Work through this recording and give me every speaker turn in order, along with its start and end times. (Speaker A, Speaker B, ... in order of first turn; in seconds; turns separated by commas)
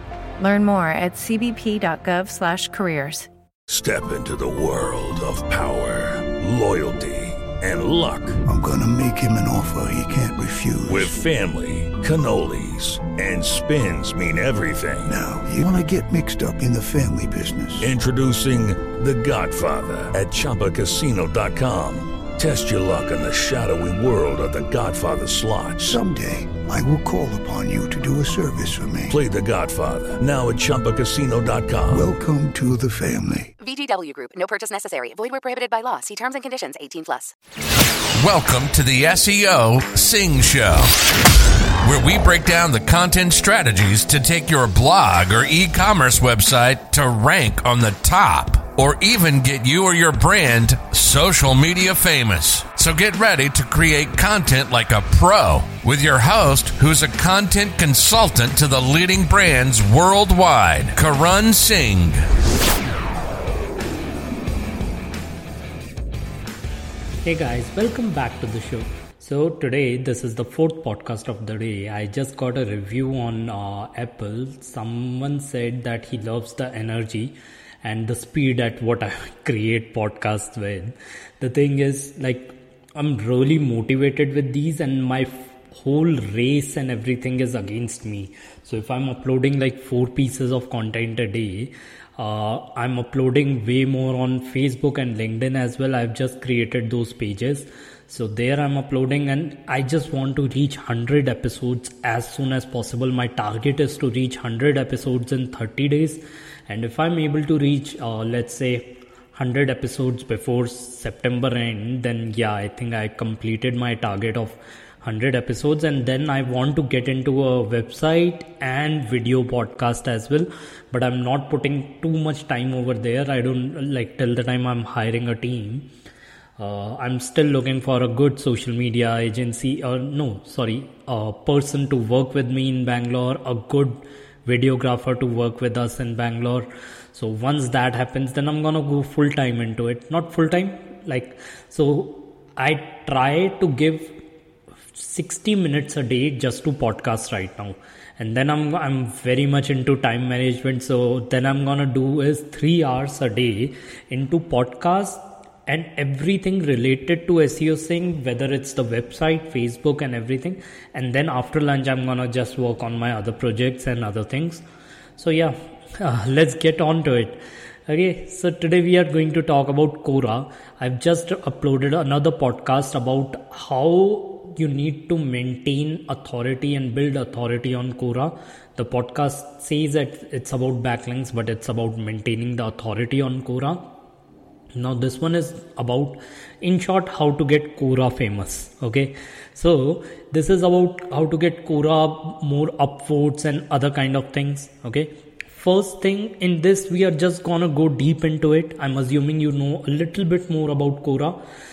Speaker A: 0.4-3.3, Speaker B: 3.7-8.4, Speaker C: 8.4-11.2, Speaker B: 10.8-15.1, Speaker C: 15.1-17.9, Speaker B: 17.8-26.0, Speaker C: 25.8-29.2, Speaker B: 29.1-32.1, Speaker C: 31.9-33.5, Speaker D: 33.6-37.3, Speaker E: 38.2-40.9, Speaker E: 41.8-62.2, Speaker F: 67.2-125.9, Speaker F: 126.6-144.2, Speaker F: 144.9-164.6, Speaker F: 165.2-183.8, Speaker F: 184.7-201.4